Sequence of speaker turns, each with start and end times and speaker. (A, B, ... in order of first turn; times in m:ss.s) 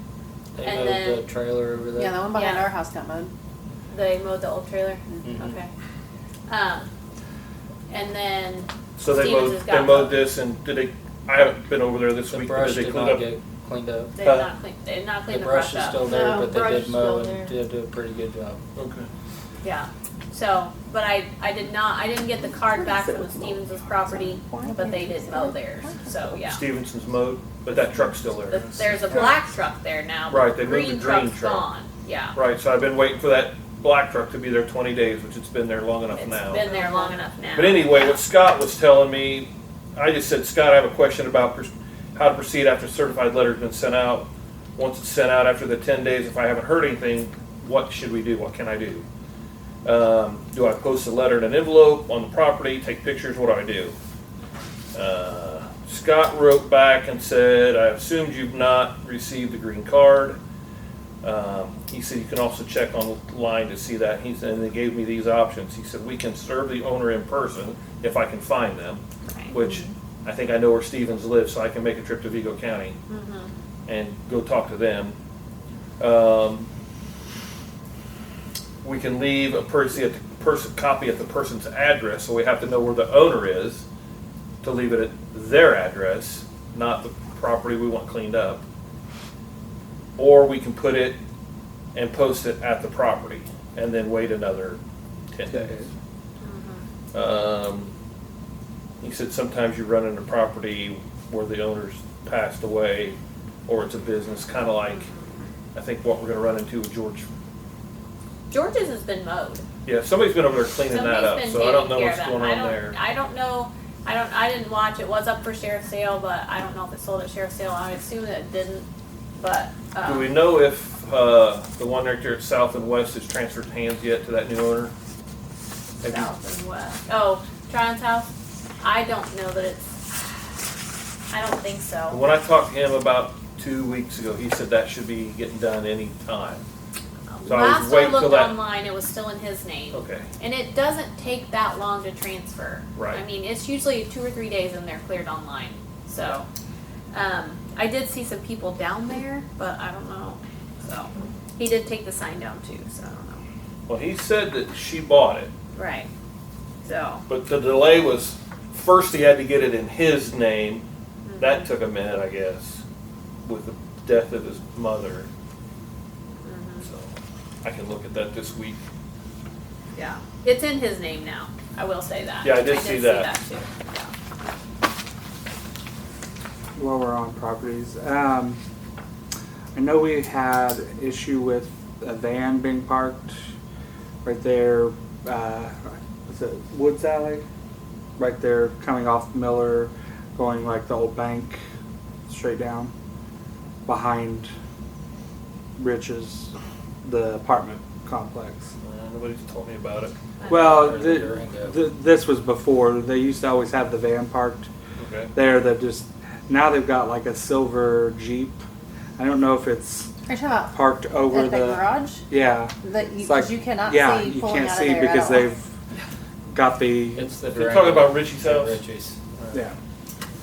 0:00.6-0:02.2 A
0:00.6-0:01.2 B
0:02.0-0:03.3 C
0:02.3-0:02.7 B
0:03.9-0:05.7 B
0:05.2-0:05.6 A
0:06.5-0:06.9 B
0:07.9-0:10.2 B
0:09.0-0:13.3 D
0:12.3-0:14.2 A
0:14.2-0:16.1 B
0:14.2-0:14.5 D
0:15.3-0:18.6 A
0:16.0-0:17.5 C
0:18.8-0:19.1 D
0:19.6-0:26.6 B
0:22.7-0:23.6 C
0:24.1-0:26.2 C
0:26.4-0:28.9 D
0:28.5-0:32.4 B
0:30.3-0:31.7 D
0:32.3-0:36.7 D
0:36.1-0:38.2 B
0:36.6-0:37.2 C
0:37.6-0:49.1 D
0:49.8-0:54.0 D
0:55.0-1:00.4 D
1:01.2-1:13.0 D
1:09.3-1:09.6 B
1:13.1-1:13.5 B
1:13.9-1:15.2 D
1:16.0-1:16.7 D
1:18.8-1:23.9 D
1:24.6-1:28.6 D
1:30.2-1:31.2 D
1:32.0-1:34.8 D
1:35.3-1:35.9 D
1:35.5-1:35.9 E
1:36.4-1:36.8 B
1:37.1-1:37.9 D
1:39.0-1:45.1 D
1:44.9-1:45.4 B
1:45.8-1:47.3 D
1:48.5-1:49.7 B
1:49.8-1:53.0 D
1:50.9-2:00.3 B
2:00.0-2:04.9 D
2:06.0-2:06.3 D
2:06.0-2:09.9 B
2:11.3-2:12.2 B
2:12.1-2:16.6 D
2:17.3-2:26.5 B
2:17.4-2:18.6 D
2:19.9-2:20.3 D
2:23.0-2:23.2 D
2:27.1-2:33.5 B
2:33.9-2:35.5 D
2:35.8-2:36.1 B
2:36.8-2:37.2 B
2:37.3-2:40.8 D
2:41.2-2:41.6 B
2:41.4-2:42.8 D
2:43.4-2:45.3 D
2:46.4-2:46.9 B
2:46.8-2:48.8 D
2:50.0-2:54.1 B
2:52.4-2:53.3 D
2:56.8-2:58.6 E
2:59.8-3:03.3 E
3:04.2-3:07.4 E
3:08.2-3:11.6 E
3:12.3-3:12.9 E
3:13.9-3:14.5 E
3:15.8-3:16.5 E
3:17.0-3:18.7 E
3:18.8-3:20.2 D
3:20.4-3:20.9 B
3:20.5-3:21.8 A
3:20.5-3:24.7 E
3:25.0-3:25.3 D
3:25.3-3:28.6 E
3:29.2-3:30.1 E
3:30.3-3:32.2 C
3:30.7-3:35.7 E
3:32.8-3:35.5 C
3:36.5-3:37.3 E
3:37.2-3:39.2 A
3:37.5-3:38.8 D
3:39.4-3:39.6 D